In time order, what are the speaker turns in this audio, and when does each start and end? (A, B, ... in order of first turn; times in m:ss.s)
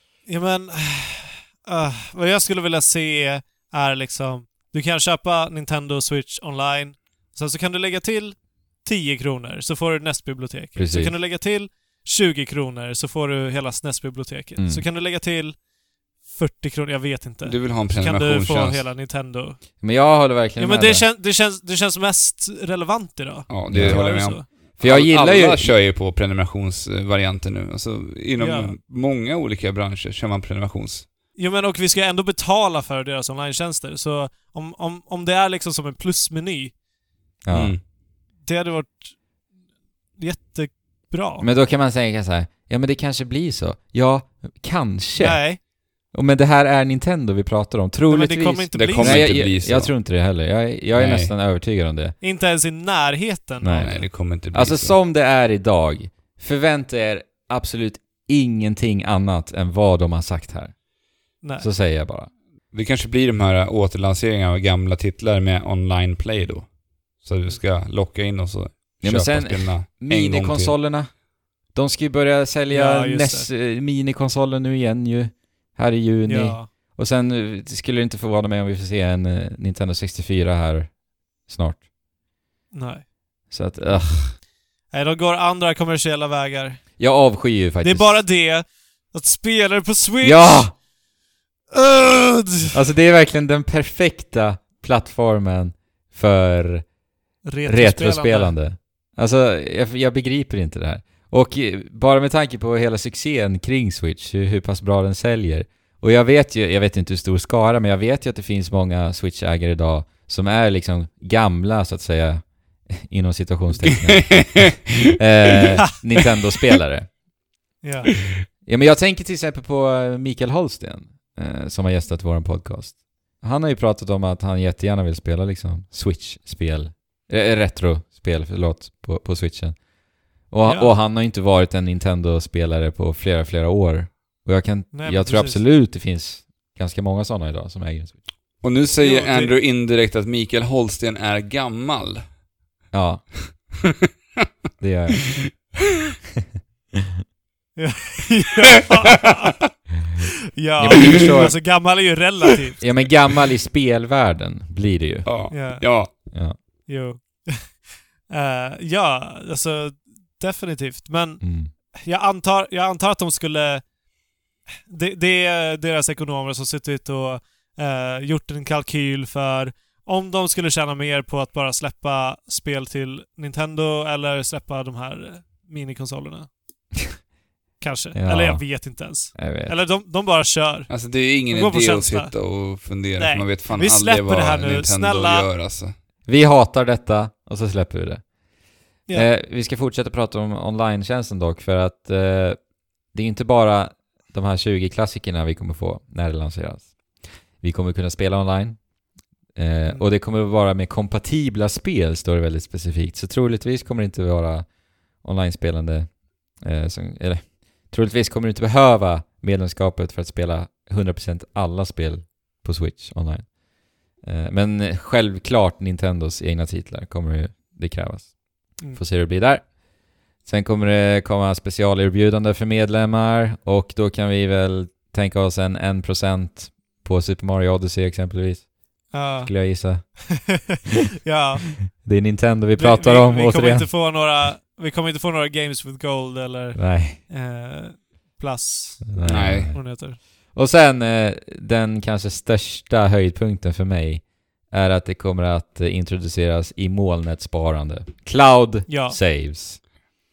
0:00.2-0:15.6 A
0:10.8-0:11.2 B
0:14.6-0:14.8 B
0:16.2-0:19.6 A
0:17.4-0:18.9 C
0:19.8-0:21.1 B
0:20.6-0:24.4 A
0:23.5-0:31.1 C
0:23.7-0:25.7 B
0:28.4-0:28.7 A
0:31.4-0:36.7 A
0:37.4-0:37.7 B
0:37.5-0:37.8 C
0:38.4-0:39.2 A
0:40.2-0:41.5 A
0:41.4-0:52.1 B
0:45.2-0:45.6 A
0:48.1-0:49.3 A
0:48.7-0:49.9 C
0:50.9-0:51.3 C
0:52.2-0:54.1 A
0:53.6-1:02.3 B
0:53.8-0:54.9 C
1:01.4-1:01.7 A
1:02.7-1:10.8 C
1:09.0-1:21.8 B
1:12.7-1:13.5 A
1:16.3-1:16.7 A
1:22.7-1:23.0 A
1:23.5-1:24.4 B
1:24.9-1:26.8 A
1:27.0-1:28.3 B
1:27.8-1:30.8 A
1:30.2-1:30.7 B
1:31.7-1:32.7 A
1:32.7-1:36.9 B
1:37.4-1:38.6 A
1:37.6-1:57.2 B
1:53.9-1:54.8 C
1:57.8-1:58.1 A
1:58.6-2:09.8 B
2:10.4-2:18.2 B
2:10.6-2:10.9 A
2:14.9-2:15.6 A
2:18.6-2:22.2 C
2:19.0-2:19.6 A
2:22.9-2:23.3 B
2:24.8-2:25.5 B
2:27.8-2:29.8 A
2:30.6-2:33.0 A
2:30.8-2:31.9 B
2:32.8-2:35.3 B
2:35.2-2:36.1 C
2:35.5-2:36.3 A
2:36.3-2:36.6 B
2:36.9-2:43.9 A
2:41.4-2:41.7 B
2:44.8-2:56.5 A
2:57.8-3:00.9 A
2:58.1-2:59.8 B
3:00.9-3:05.9 C
3:01.5-3:02.3 A
3:03.2-3:05.5 A
3:06.2-3:08.2 B
3:09.1-3:18.9 B
3:19.5-3:33.6 B
3:34.1-3:39.8 B
3:40.4-3:50.6 B
3:49.1-3:51.8 A
3:51.9-3:53.9 B
3:52.8-4:00.2 A
3:56.7-3:57.2 B
3:59.1-4:09.8 B
3:59.2-3:59.7 C
4:08.9-4:09.2 A